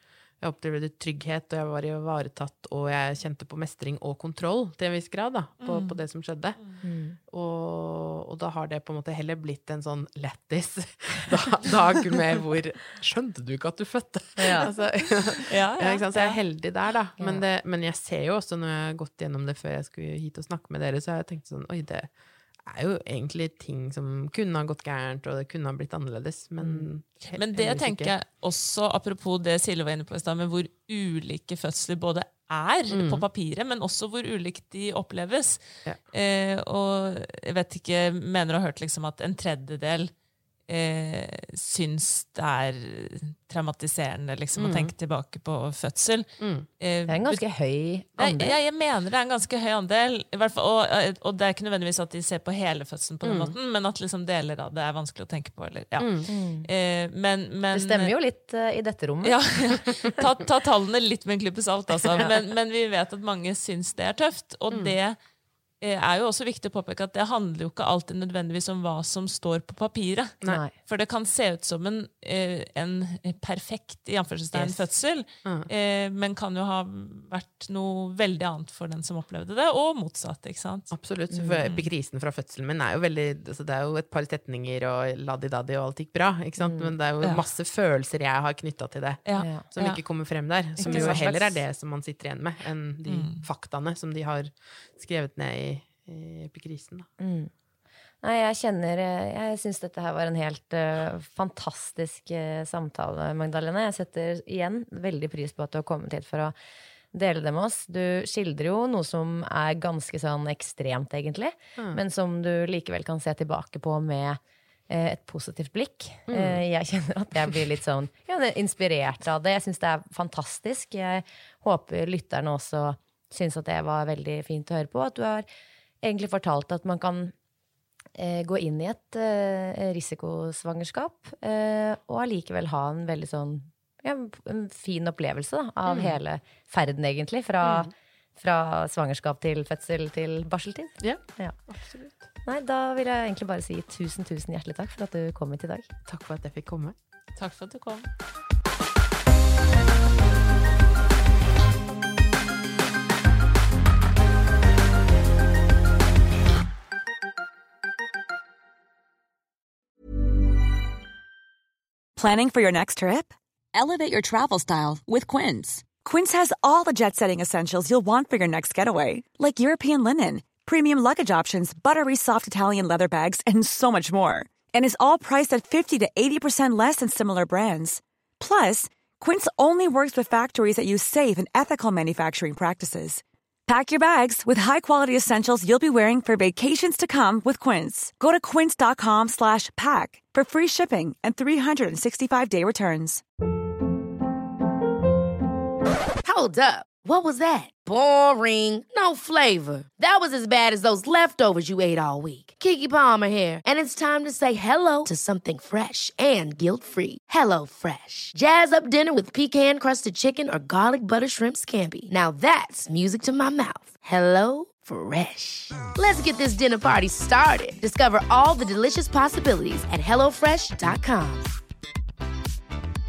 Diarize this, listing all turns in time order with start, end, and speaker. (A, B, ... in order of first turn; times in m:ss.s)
0:00.4-0:06.6 A
0:05.6-0:06.0 B
0:06.8-0:07.2 C
0:07.2-0:22.1 A
0:14.4-0:14.7 C
0:15.3-0:16.4 B
0:17.2-0:17.4 C
0:22.6-0:28.1 A
0:27.3-0:40.1 B
0:32.9-0:33.2 A
0:40.7-0:47.4 B
0:44.6-0:44.9 A
0:46.4-0:46.6 A
0:47.1-0:48.6 C
0:48.2-0:58.1 B
0:53.2-0:53.6 A
0:56.0-0:56.3 A
0:56.3-0:56.7 C
0:57.7-0:59.4 C
0:59.2-1:05.2 B
1:04.7-1:05.0 A
1:05.8-1:20.9 B
1:10.5-1:10.7 C
1:14.5-1:14.8 A
1:20.9-1:37.1 A
1:21.3-1:21.6 C
1:26.6-1:26.9 C
1:29.3-1:30.0 B
1:29.4-1:29.6 C
1:30.8-1:31.4 B
1:30.9-1:31.5 C
1:33.1-1:33.4 B
1:37.2-1:37.5 C
1:38.2-1:46.5 C
1:47.1-2:05.4 C
1:51.8-1:52.0 A
1:56.3-1:56.6 A
2:06.0-2:07.3 C
2:08.2-2:21.6 C
2:15.8-2:16.2 A
2:17.6-2:17.9 A
2:22.4-2:25.9 C
2:26.0-2:27.0 A
2:27.4-2:28.1 B
2:42.2-3:13.2 D
3:16.2-3:41.5 E